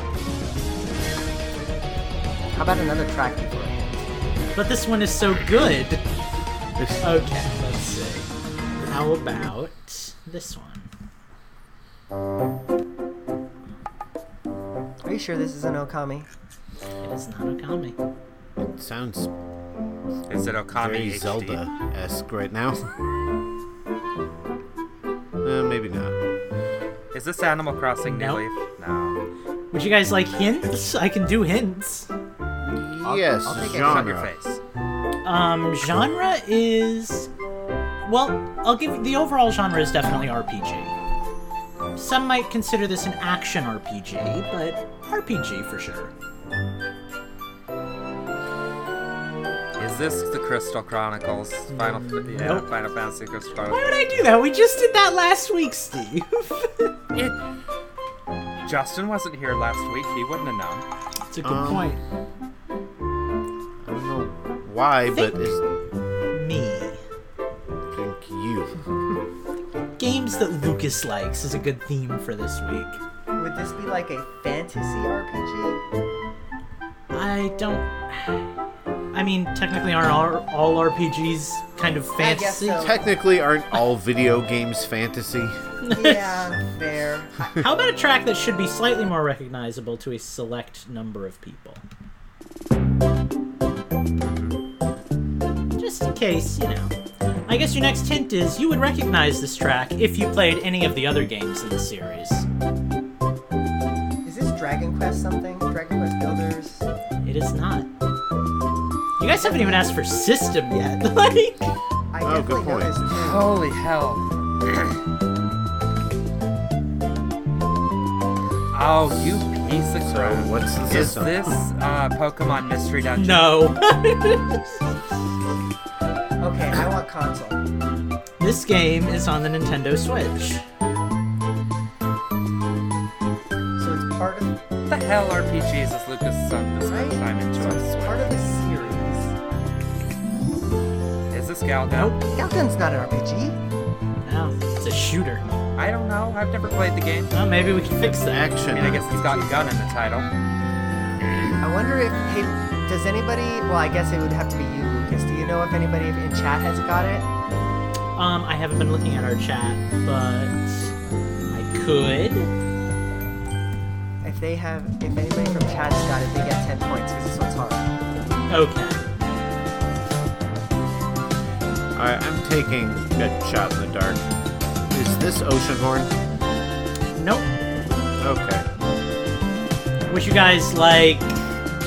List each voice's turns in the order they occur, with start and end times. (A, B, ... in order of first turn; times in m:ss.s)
0:02.5-0:03.9 A
0:04.5-0:06.0 B
0:06.8-0:07.0 C
0:07.0-0:10.9 B
0:15.0-0:16.3 A
0:17.0-0:18.0 B
0:18.6-0:19.3 C
0:20.3-0:21.6 D
0:20.7-0:22.9 C
0:25.4-0:26.2 C
0:27.1-0:29.2 D
0:28.0-0:28.4 B
0:29.7-0:32.1 B
0:32.6-0:34.3 C
0:33.0-0:34.2 A
0:33.6-0:34.6 D
0:35.2-0:37.3 B
0:38.0-0:41.0 B
0:42.0-0:46.1 B
0:49.8-0:54.0 D
0:51.7-0:52.7 B
0:53.6-0:56.9 B
0:58.6-1:00.8 D
1:01.3-1:02.0 B
1:01.4-1:02.0 C
1:03.8-1:05.6 C
1:05.1-1:05.4 B
1:06.3-1:07.0 B
1:07.9-1:08.8 C
1:10.0-1:13.0 B
1:13.4-1:15.8 A
1:17.1-1:18.5 B
1:19.1-1:22.9 B
1:22.2-1:23.0 A
1:22.8-1:25.6 C
1:25.8-1:26.3 B
1:25.9-1:27.6 A
1:27.6-1:31.8 B
1:34.2-1:34.6 D
1:35.8-1:37.0 B
1:37.5-1:42.5 B
1:44.2-1:46.9 A
1:47.2-1:47.9 B
1:49.2-1:51.8 B
1:49.3-1:49.9 A
1:52.1-1:53.5 A
1:52.2-1:53.0 C
1:53.1-1:54.3 D
1:58.7-2:03.6 D
2:00.0-2:01.6 C
2:03.2-2:04.7 B
2:06.4-2:07.6 A
2:08.4-2:10.6 B
2:13.8-2:14.6 A
2:14.9-2:18.6 D
2:16.8-2:19.3 A
2:21.3-2:22.2 D
2:21.9-2:22.2 B
2:22.3-2:23.6 A
2:24.2-2:25.4 B
2:25.8-2:27.3 D
2:27.3-2:28.6 B
2:28.0-2:29.8 C
2:28.7-2:30.3 D
2:31.6-2:37.3 A
2:38.2-2:40.9 B
2:41.5-2:42.5 B
2:44.2-2:47.9 A
2:48.5-2:49.0 B
2:51.9-2:54.3 C
2:54.9-2:56.2 C
2:57.1-2:57.5 B
2:58.2-2:58.7 C
3:00.1-3:01.5 B